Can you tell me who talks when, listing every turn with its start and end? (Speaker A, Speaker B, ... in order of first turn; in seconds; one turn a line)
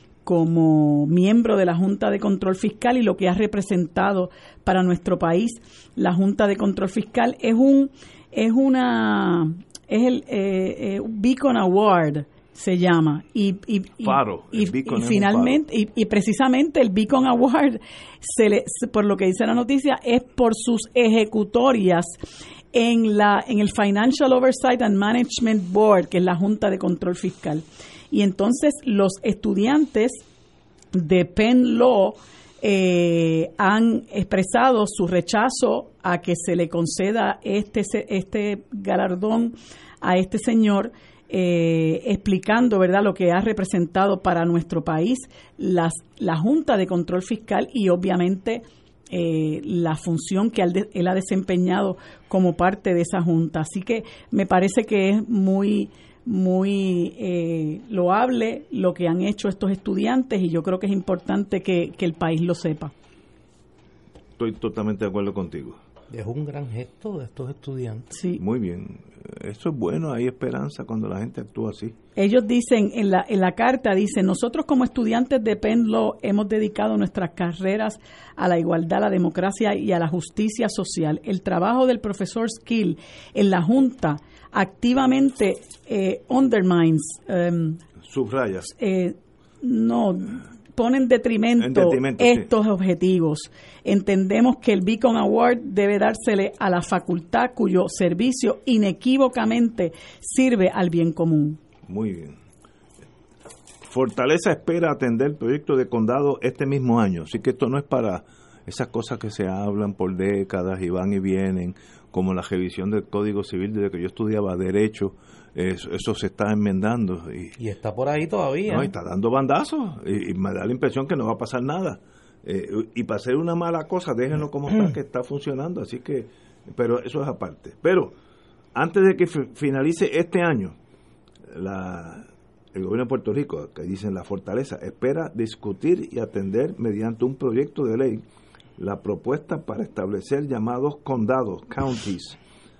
Speaker A: 0.2-22.1
Speaker B: 14.0-15.6
Speaker A: 22.7-30.2
Speaker A: 30.9-62.9
Speaker B: 64.4-65.8
Speaker C: 66.1-68.1
Speaker A: 68.1-68.4
Speaker B: 68.4-71.9
Speaker A: 72.2-87.8
Speaker B: 88.0-88.7
Speaker A: 88.8-101.6
Speaker B: 91.6-92.5
Speaker B: 101.9-102.4
Speaker B: 103.8-117.5
Speaker C: 117.6-118.9
Speaker B: 118.7-128.1
Speaker B: 128.7-130.8
Speaker B: 131.5-138.2
Speaker B: 138.8-142.4